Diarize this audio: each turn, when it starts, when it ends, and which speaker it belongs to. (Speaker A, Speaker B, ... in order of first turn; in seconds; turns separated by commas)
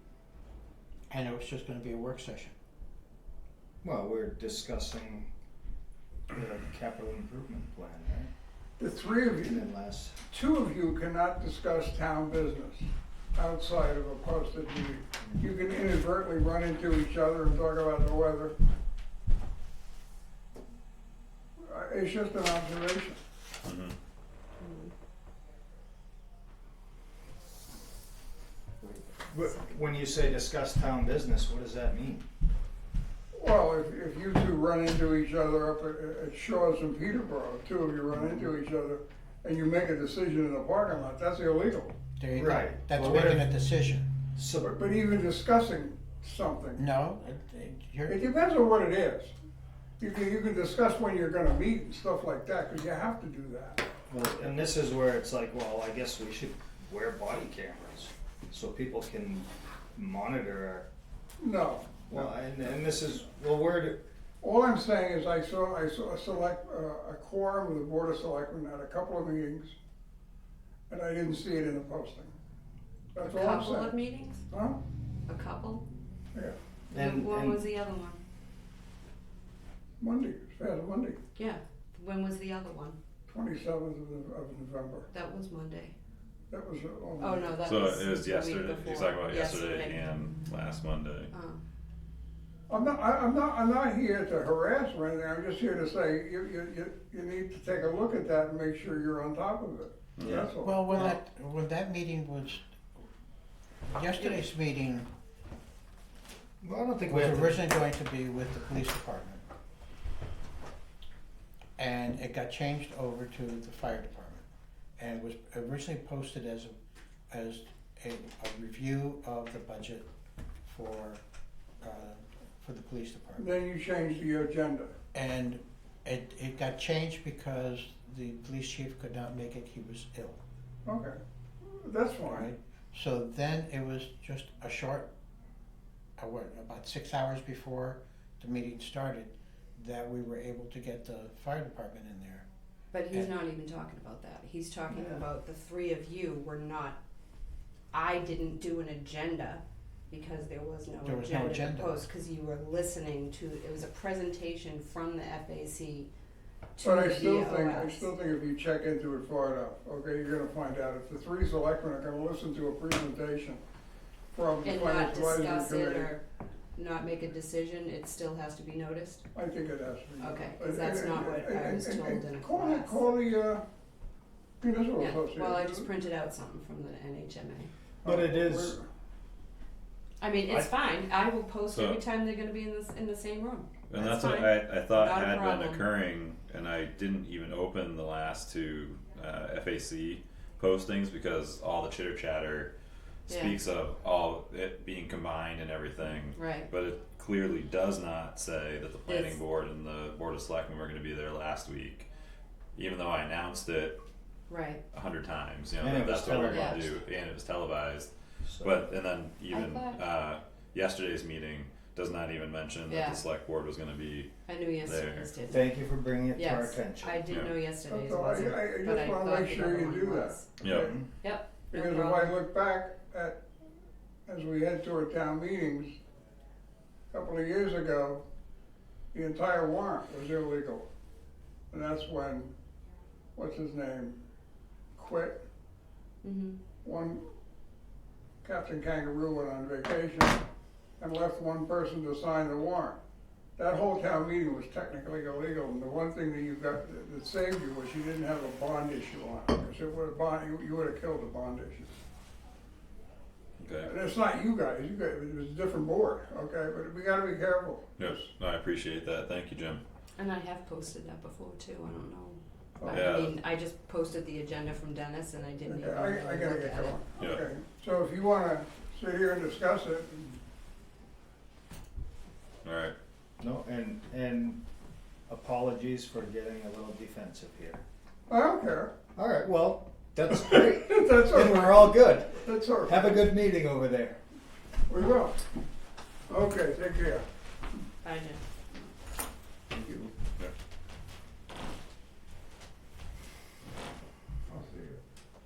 Speaker A: 1.1-2.5, Speaker B: 3.8-5.3, Speaker B: 6.3-8.3, Speaker C: 8.8-9.7, Speaker B: 9.4-10.2, Speaker C: 10.3-18.5, Speaker C: 21.6-23.2, Speaker D: 23.6-23.9, Speaker E: 24.6-24.9, Speaker B: 29.3-32.3, Speaker C: 33.3-42.0, Speaker B: 38.2-38.4, Speaker A: 42.2-44.1, Speaker B: 42.3-43.5, Speaker B: 44.3-44.8, Speaker C: 44.6-46.8, Speaker A: 46.8-48.2, Speaker C: 48.1-49.3, Speaker C: 50.0-53.8, Speaker B: 54.1-60.9, Speaker C: 61.4-62.3, Speaker B: 62.1-64.0, Speaker C: 64.4-69.8, Speaker C: 70.9-72.3, Speaker C: 73.1-73.9, Speaker E: 73.2-74.4, Speaker C: 74.5-74.8, Speaker E: 75.3-75.8, Speaker B: 76.9-77.6, Speaker E: 76.9-78.2, Speaker C: 80.0-81.2, Speaker E: 81.3-83.0, Speaker C: 83.3-85.1, Speaker E: 85.1-85.9, Speaker C: 86.5-87.5, Speaker E: 87.2-90.0, Speaker D: 87.6-91.3, Speaker E: 91.3-91.6, Speaker C: 92.7-101.2, Speaker B: 100.2-100.5, Speaker A: 100.6-102.6, Speaker A: 103.9-105.1, Speaker B: 106.6-107.6, Speaker A: 107.1-109.4, Speaker A: 111.8-114.4, Speaker A: 115.0-116.8, Speaker A: 117.3-120.1, Speaker A: 120.6-121.2, Speaker A: 121.8-123.5, Speaker C: 123.4-124.9, Speaker A: 125.1-130.4, Speaker C: 130.8-132.5, Speaker A: 132.2-135.1, Speaker A: 136.2-142.4, Speaker E: 142.9-147.0, Speaker B: 144.9-145.2, Speaker E: 147.9-156.1, Speaker A: 151.0-151.9, Speaker E: 156.8-158.1, Speaker C: 156.8-163.6, Speaker C: 164.3-166.1, Speaker E: 164.6-166.2, Speaker E: 166.7-169.2, Speaker C: 169.3-173.6, Speaker E: 170.2-173.0, Speaker C: 174.6-175.9, Speaker E: 175.0-177.7, Speaker C: 178.0-178.8, Speaker B: 178.0-178.8, Speaker E: 180.2-185.9, Speaker D: 181.7-182.0, Speaker D: 183.9-192.7, Speaker E: 193.3-193.6, Speaker D: 193.3-202.1, Speaker E: 196.3-196.7, Speaker E: 199.1-199.4, Speaker D: 202.8-204.0, Speaker E: 204.5-204.8, Speaker D: 204.9-215.3, Speaker B: 205.8-206.9, Speaker E: 206.5-206.8, Speaker B: 208.4-208.8, Speaker E: 209.5-210.1, Speaker E: 212.9-213.2, Speaker E: 214.4-215.7, Speaker B: 215.5-217.2, Speaker E: 216.3-220.5, Speaker D: 217.3-217.6, Speaker C: 217.8-221.0, Speaker D: 220.6-220.9, Speaker B: 220.7-221.0, Speaker E: 221.2-222.4, Speaker C: 221.6-223.4, Speaker C: 224.2-225.9, Speaker C: 227.1-228.2, Speaker C: 229.1-230.9, Speaker C: 231.7-232.5, Speaker C: 233.3-234.2, Speaker C: 234.9-235.4, Speaker E: 236.2-236.6, Speaker C: 236.8-237.2, Speaker C: 238.4-240.4, Speaker C: 241.0-243.0, Speaker C: 243.6-251.9, Speaker D: 253.6-253.9, Speaker C: 253.8-258.2, Speaker D: 258.0-259.8, Speaker E: 260.2-267.1, Speaker C: 262.8-263.3, Speaker D: 262.9-263.3, Speaker C: 265.6-270.4, Speaker D: 267.2-267.4, Speaker D: 272.6-272.9, Speaker B: 273.4-274.6, Speaker B: 275.3-277.8, Speaker C: 278.3-278.9, Speaker B: 279.1-284.2, Speaker C: 280.6-283.3, Speaker C: 284.9-285.4, Speaker C: 286.3-287.2, Speaker E: 288.0-288.4, Speaker C: 289.7-290.1, Speaker C: 294.5-295.0